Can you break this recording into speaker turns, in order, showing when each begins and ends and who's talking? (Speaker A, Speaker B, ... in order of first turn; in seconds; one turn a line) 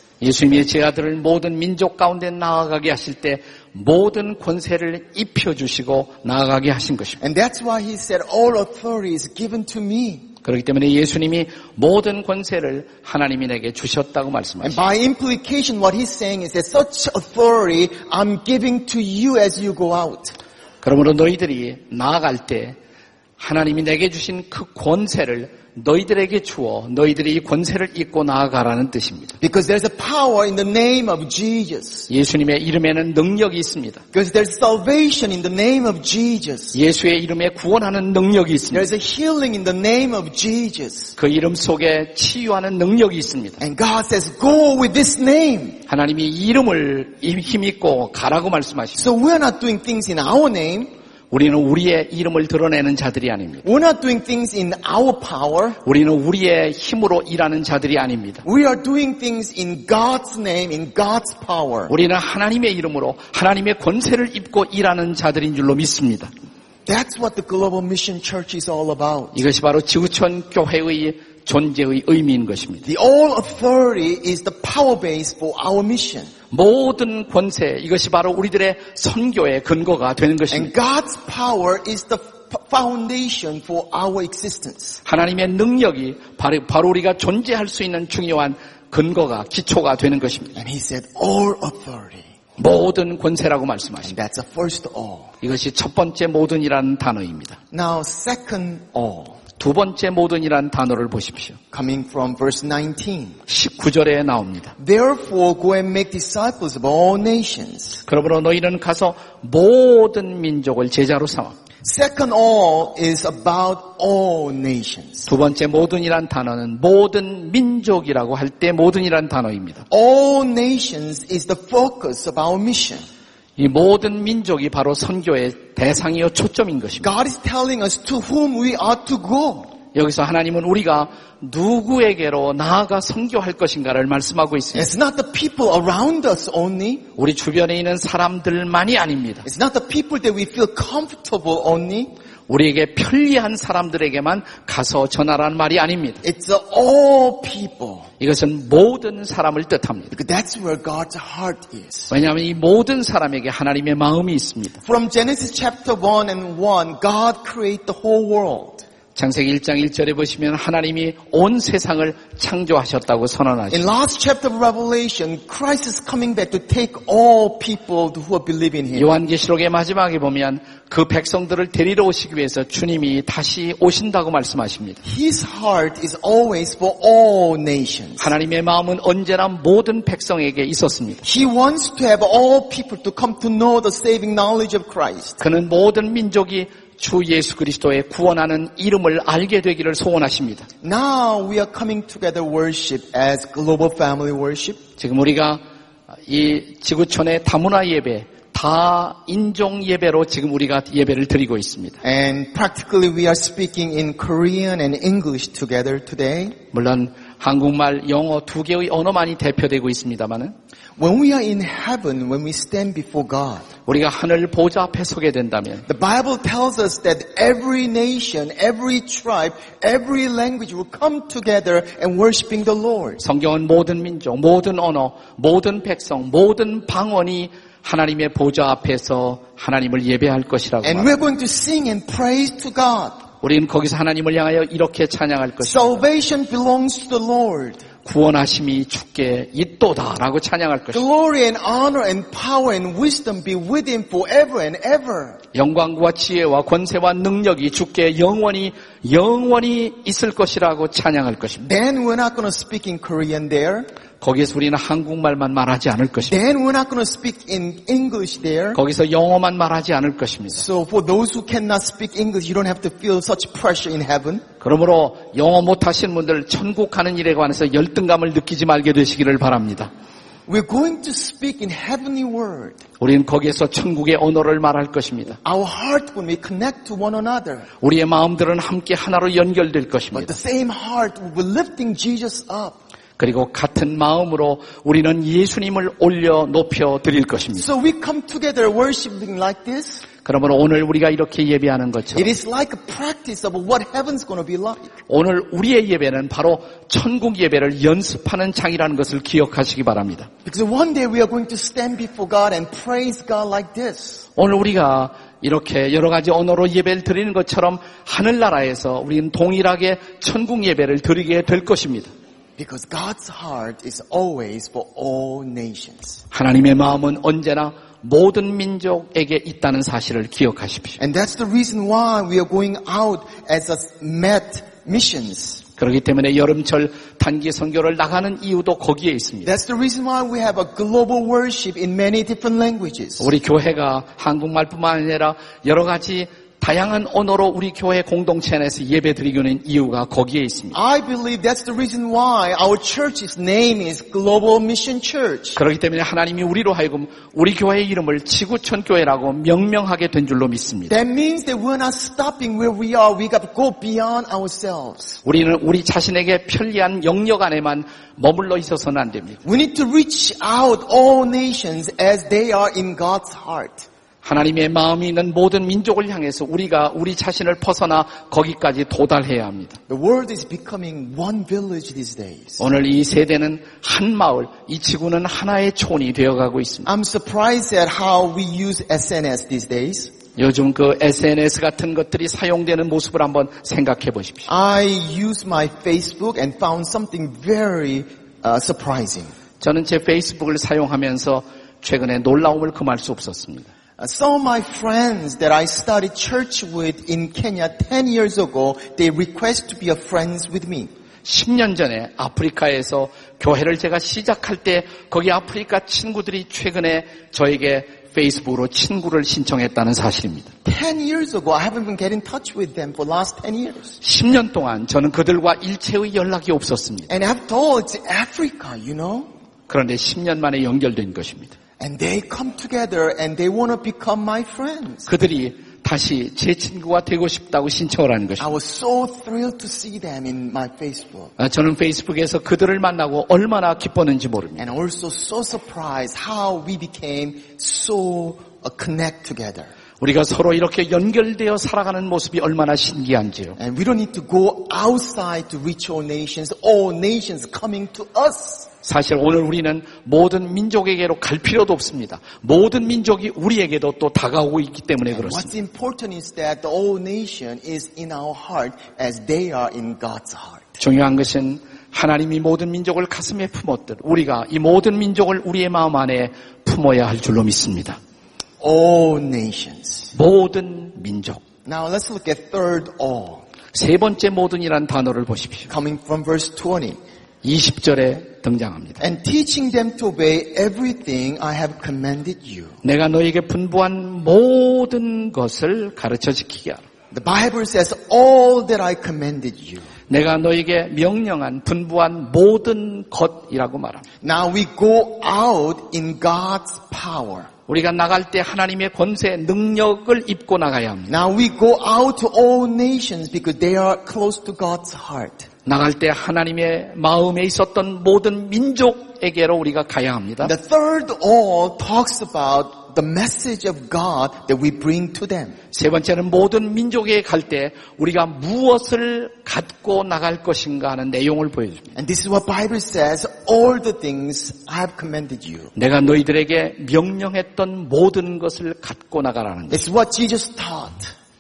Speaker A: 0.2-7.2
Speaker B: 7.2-10.3
Speaker A: 10.4-14.8
Speaker B: 14.6-20.4
Speaker A: 20.8-22.8
Speaker A: 23.4-29.3
Speaker B: 29.4-32.1
Speaker A: 32.1-34.0
Speaker B: 34.1-36.8
Speaker A: 36.7-38.9
Speaker B: 38.7-41.1
Speaker A: 41.2-43.6
Speaker B: 43.6-45.8
Speaker A: 45.9-49.1
Speaker B: 49.0-50.9
Speaker A: 51.3-53.7
Speaker B: 53.6-55.8
Speaker A: 55.8-58.4
Speaker B: 58.4-61.9
Speaker A: 61.9-66.3
Speaker B: 66.9-69.4
Speaker A: 69.3-72.9
Speaker B: 72.8-76.3
Speaker A: 76.5-80.7
Speaker B: 80.5-85.0
Speaker A: 85.0-90.6
Speaker B: 90.5-92.3
Speaker A: 92.6-94.1
Speaker B: 94.0-95.3
Speaker A: 95.4-97.6
Speaker B: 97.7-99.4
Speaker A: 99.6-101.6
Speaker B: 101.7-103.4
Speaker A: 103.5-104.8
Speaker B: 104.8-108.0
Speaker A: 108.1-111.6
Speaker B: 111.8-115.3
Speaker A: 115.3-119.8
Speaker B: 119.9-123.0
Speaker A: 123.6-127.1
Speaker B: 127.0-129.7
Speaker A: 129.9-134.9
Speaker B: 134.7-137.1
Speaker A: 137.2-139.5
Speaker B: 139.4-142.1
Speaker A: 142.5-146.2
Speaker B: 146.2-148.1
Speaker A: 148.2-150.1
Speaker B: 150.1-152.1
Speaker A: 152.1-154.8
Speaker B: 154.8-158.8
Speaker A: 159.2-163.9
Speaker B: 163.7-169.1
Speaker A: 168.9-175.0
Speaker B: 175.1-178.3
Speaker A: 178.2-181.2
Speaker B: 181.2-185.4
Speaker A: 185.4-190.7
Speaker B: 190.8-194.8
Speaker A: 195.0-195.6
Speaker A: 196.3-202.0
Speaker B: 202.0-206.6
Speaker A: 206.7-210.5
Speaker B: 211.0-213.7
Speaker A: 213.9-215.8
Speaker B: 215.9-223.2
Speaker A: 223.2-231.1
Speaker B: 230.8-233.2
Speaker A: 233.4-236.0
Speaker B: 235.6-237.8
Speaker A: 238.1-241.0
Speaker B: 240.9-245.4
Speaker A: 245.5-251.7
Speaker B: 251.6-253.9
Speaker A: 254.2-256.4
Speaker B: 256.3-258.8
Speaker A: 258.7-260.6
Speaker B: 260.5-264.4
Speaker A: 264.6-269.9
Speaker B: 270.5-272.8
Speaker A: 273.0-275.4
Speaker B: 275.4-277.7
Speaker A: 277.8-280.4
Speaker B: 280.1-282.8
Speaker A: 283.2-287.7
Speaker B: 287.6-290.0
Speaker A: 290.2-292.3
Speaker B: 292.1-294.9
Speaker A: 295.1-300.3
Speaker B: 300.4-304.2
Speaker A: 304.4-312.1
Speaker B: 312.6-316.2
Speaker A: 316.3-321.0
Speaker B: 321.0-325.6
Speaker A: 325.8-329.5
Speaker B: 329.4-333.3
Speaker A: 333.2-340.8
Speaker B: 340.7-345.6
Speaker A: 345.6-350.9
Speaker B: 350.9-355.2
Speaker A: 355.2-359.4
Speaker B: 359.4-363.9
Speaker A: 364.2-369.8
Speaker B: 369.9-372.6
Speaker A: 372.6-376.9
Speaker B: 376.9-380.1
Speaker A: 380.4-384.5
Speaker B: 384.5-389.3
Speaker A: 389.6-393.7
Speaker B: 394.0-400.9
Speaker A: 401.2-410.5
Speaker B: 410.6-413.9
Speaker A: 414.0-417.1
Speaker B: 417.1-419.3
Speaker A: 419.7-421.6
Speaker B: 421.8-425.1
Speaker A: 425.1-428.5
Speaker B: 428.4-431.3
Speaker A: 431.4-434.7
Speaker B: 434.6-439.7
Speaker A: 440.0-443.6
Speaker B: 443.6-448.7
Speaker A: 448.8-455.5
Speaker B: 455.1-460.8
Speaker A: 460.8-468.0
Speaker B: 468.6-470.1
Speaker A: 470.1-471.4
Speaker B: 471.7-473.4
Speaker A: 473.7-475.7
Speaker B: 475.7-477.0
Speaker A: 477.4-479.0
Speaker B: 479.0-482.8
Speaker A: 482.8-486.9
Speaker B: 487.1-489.9
Speaker A: 490.1-494.1
Speaker B: 494.2-497.5
Speaker A: 497.7-501.1
Speaker B: 501.1-505.5
Speaker A: 505.7-510.5
Speaker B: 510.4-515.6
Speaker A: 515.7-521.9
Speaker B: 522.0-525.7
Speaker A: 525.8-529.9
Speaker B: 529.7-531.1